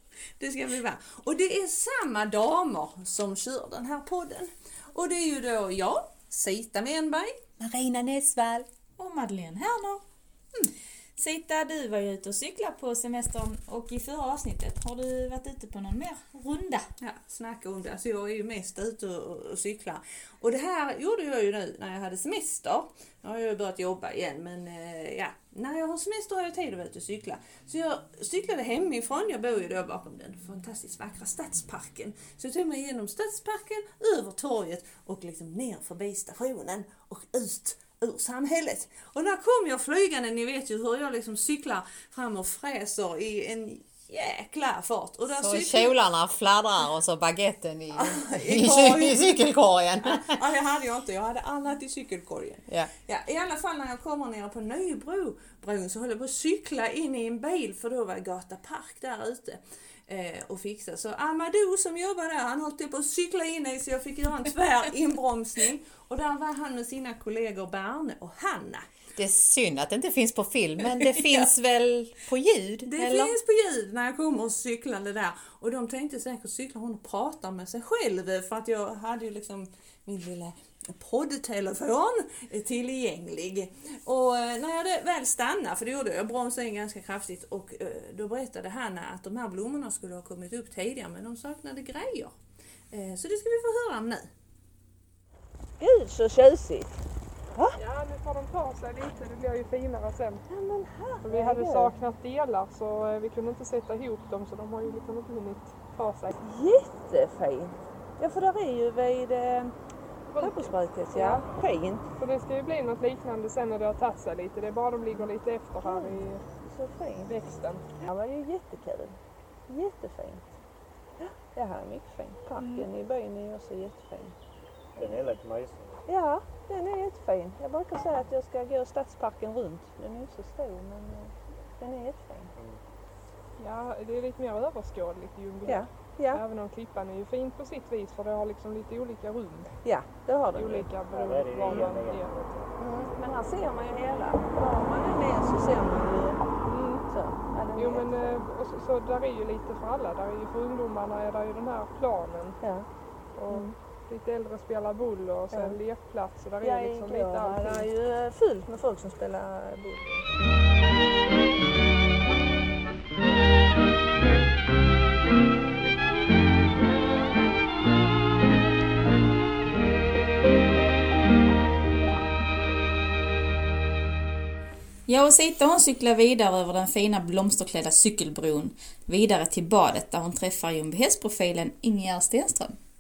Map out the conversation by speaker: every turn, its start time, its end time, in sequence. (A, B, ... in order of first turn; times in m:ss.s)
0:00.4-0:07.4 A
0:07.6-0:08.7 B
0:09.0-0:10.0 C
0:11.2-0:16.9 C
0:17.0-0:46.0 A
0:45.3-0:50.4 B
0:47.9-0:49.4 A
0:50.0-1:08.8 A
1:09.2-1:13.4 B
1:12.9-1:32.4 A
1:32.9-1:34.3 A
1:35.8-1:36.9 A
1:37.5-1:37.8 A
1:37.7-1:40.4 D
1:40.5-1:42.0 A
1:41.2-1:46.3 D
1:46.4-1:49.8 A
1:50.3-1:51.6 D
1:50.4-1:52.1 A
1:52.2-1:56.4 D
1:55.8-1:57.3 A
1:57.2-1:58.0 D
1:58.0-2:00.4 A
2:01.2-2:04.4 A
2:02.6-2:02.9 D
2:05.1-2:05.8 E
2:06.1-2:12.5 A
2:13.6-2:19.7 D
2:15.6-2:16.4 A
2:19.8-2:21.0 A
2:20.5-2:22.5 D
2:21.1-2:22.3 E
2:22.8-2:26.4 A
2:26.7-2:27.0 D
2:27.0-2:28.4 A
2:27.8-2:32.6 D
2:32.6-2:32.9 A
2:33.4-2:37.9 D
2:33.5-2:33.8 A
2:35.5-2:35.8 A
2:36.6-2:40.3 A
2:55.1-3:02.8 C